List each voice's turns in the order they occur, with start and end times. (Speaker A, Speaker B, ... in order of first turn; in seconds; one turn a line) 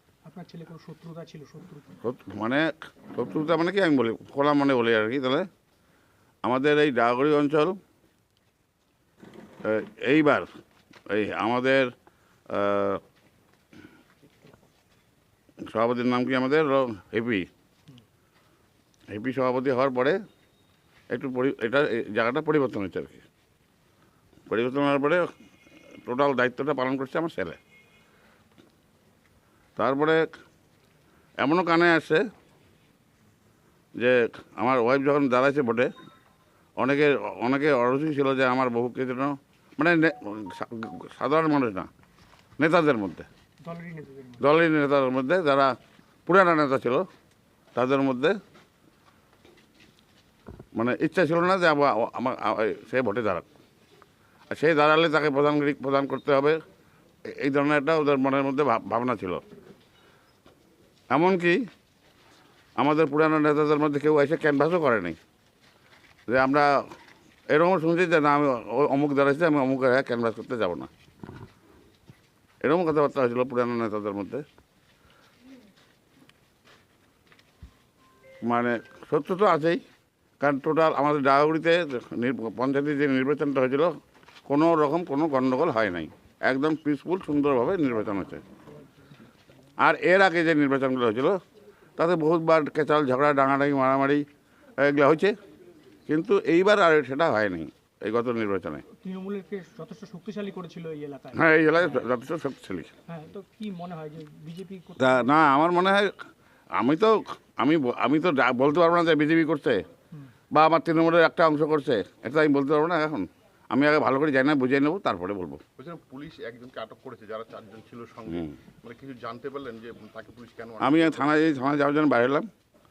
Speaker A: 0.2-1.9
Speaker B: 2.0-5.5
Speaker B: 6.4-7.8
Speaker B: 9.6-10.5
Speaker B: 11.1-11.9
Speaker B: 12.5-13.0
Speaker B: 15.7-17.5
Speaker B: 19.1-20.2
Speaker B: 21.1-23.2
Speaker B: 24.5-25.2
Speaker B: 26.0-27.6
Speaker B: 29.8-30.2
Speaker B: 31.4-32.2
Speaker B: 34.0-35.9
Speaker B: 36.8-41.9
Speaker B: 42.6-43.3
Speaker A: 43.6-44.4
Speaker B: 44.4-45.7
Speaker B: 46.3-47.1
Speaker B: 47.8-48.4
Speaker B: 50.8-53.5
Speaker B: 54.5-56.6
Speaker B: 57.3-59.4
Speaker B: 61.1-61.6
Speaker B: 62.8-65.2
Speaker B: 66.3-66.7
Speaker B: 67.5-70.9
Speaker B: 72.6-74.5
Speaker B: 78.4-79.8
Speaker B: 80.4-83.9
Speaker B: 84.5-88.4
Speaker B: 89.8-91.4
Speaker B: 92.0-94.2
Speaker B: 94.8-95.3
Speaker B: 96.1-98.8
Speaker A: 99.0-102.0
Speaker B: 101.3-102.9
Speaker A: 103.1-105.3
Speaker B: 105.0-106.1
Speaker B: 106.8-109.8
Speaker B: 110.5-115.6
Speaker C: 115.8-121.3
Speaker B: 120.8-122.5